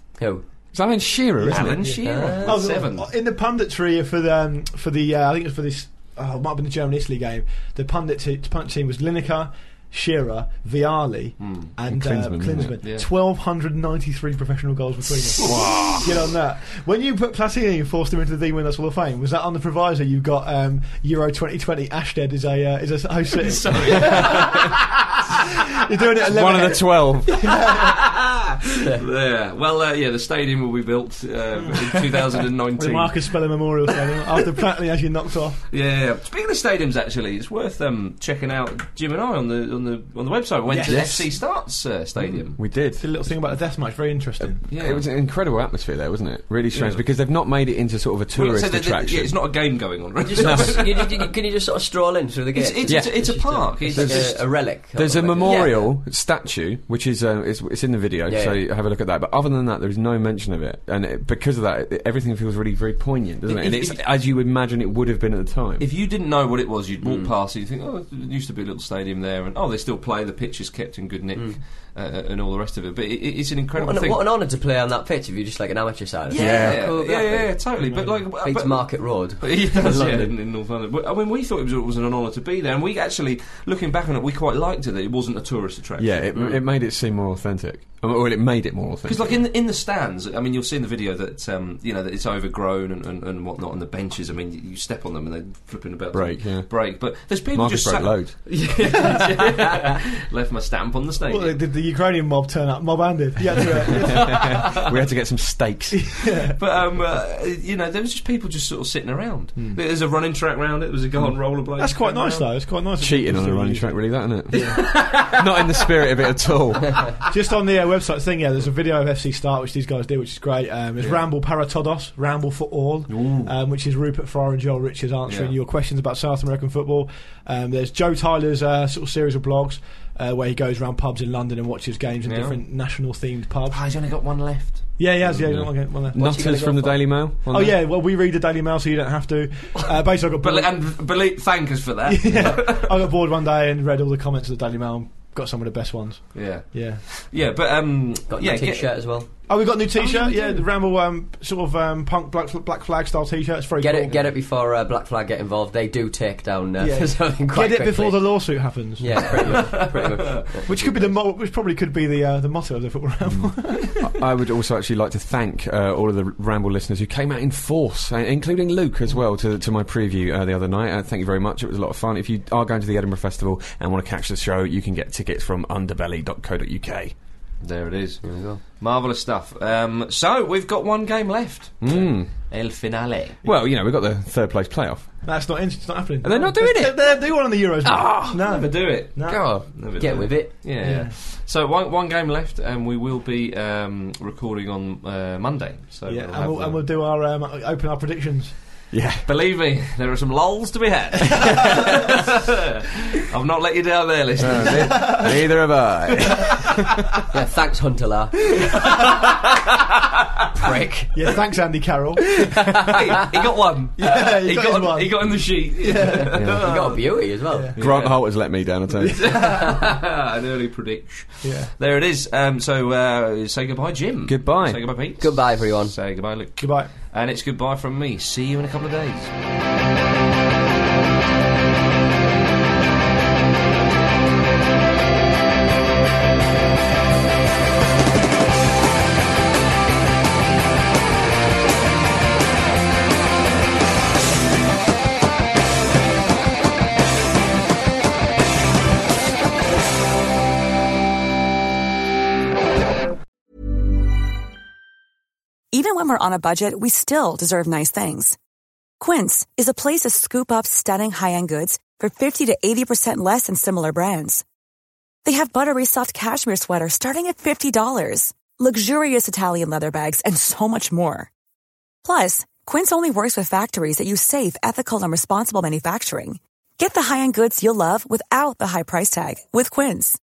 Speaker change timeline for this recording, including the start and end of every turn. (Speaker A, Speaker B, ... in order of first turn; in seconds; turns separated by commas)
Speaker A: 0.2-0.5, Speaker B: 0.7-2.2, Speaker C: 1.4-28.0, Speaker D: 1.4-3.1, Speaker A: 2.0-2.6, Speaker D: 11.4-11.7, Speaker B: 11.9-12.8, Speaker D: 15.4-16.1, Speaker B: 15.4-16.1, Speaker D: 23.3-24.8, Speaker B: 26.3-27.5, Speaker D: 27.5-33.4, Speaker C: 31.6-31.8, Speaker C: 32.8-35.6, Speaker D: 35.7-42.6, Speaker C: 40.7-41.3, Speaker B: 40.9-41.4, Speaker B: 42.5-43.0, Speaker C: 43.0-44.6, Speaker B: 44.4-49.8, Speaker D: 44.7-45.1, Speaker D: 46.7-47.0, Speaker D: 48.3-51.1, Speaker A: 50.2-56.0, Speaker B: 50.4-50.8, Speaker D: 52.5-54.5, Speaker B: 52.9-65.9, Speaker A: 58.3-58.6, Speaker D: 63.5-64.0, Speaker D: 65.8-74.3, Speaker A: 67.0-67.3, Speaker A: 73.8-80.3, Speaker D: 76.3-86.4, Speaker B: 76.3-77.0, Speaker C: 77.8-78.2, Speaker B: 86.0-89.4, Speaker D: 89.0-101.6, Speaker B: 96.1-98.7, Speaker C: 101.3-104.7, Speaker B: 104.1-106.2, Speaker D: 104.4-104.7, Speaker C: 105.9-106.6, Speaker D: 106.6-112.6, Speaker C: 109.6-109.8, Speaker C: 111.7-114.9, Speaker B: 113.0-117.1, Speaker D: 114.5-115.5, Speaker C: 117.3-133.8, Speaker D: 121.0-121.2, Speaker D: 123.1-123.5, Speaker D: 125.3-125.5, Speaker D: 132.2-132.6, Speaker D: 133.7-135.0, Speaker C: 135.0-136.8, Speaker B: 135.3-137.8, Speaker A: 136.1-137.0, Speaker C: 137.5-140.7, Speaker D: 140.4-143.1, Speaker C: 142.1-147.0, Speaker D: 146.3-149.3, Speaker A: 148.3-149.3, Speaker C: 149.5-154.3, Speaker D: 150.0-150.6, Speaker A: 153.8-161.2, Speaker C: 156.8-159.8, Speaker D: 159.5-160.4, Speaker C: 160.6-164.1, Speaker B: 163.2-177.2, Speaker D: 177.6-183.4, Speaker A: 178.2-178.6, Speaker B: 181.8-182.5, Speaker B: 183.4-185.2, Speaker C: 185.2-189.6, Speaker B: 186.2-187.1, Speaker D: 188.2-196.8, Speaker A: 189.3-190.6, Speaker C: 190.8-191.1, Speaker C: 196.1-198.6, Speaker B: 198.9-199.3, Speaker D: 199.2-205.3, Speaker B: 204.4-207.0, Speaker C: 204.7-205.4, Speaker A: 207.3-208.7, Speaker D: 208.8-209.0, Speaker A: 210.6-211.3, Speaker C: 211.1-212.9, Speaker D: 212.9-217.1, Speaker C: 214.0-216.4, Speaker A: 216.2-217.7, Speaker B: 216.3-216.9, Speaker C: 217.5-217.9, Speaker B: 217.8-219.5, Speaker D: 217.8-218.3, Speaker C: 219.1-219.6, Speaker D: 219.2-229.3, Speaker C: 221.4-221.7, Speaker B: 224.3-225.0, Speaker A: 225.2-225.9, Speaker C: 226.6-226.9, Speaker E: 255.7-258.4, Speaker E: 259.0-264.4, Speaker E: 265.2-271.3, Speaker E: 272.0-280.2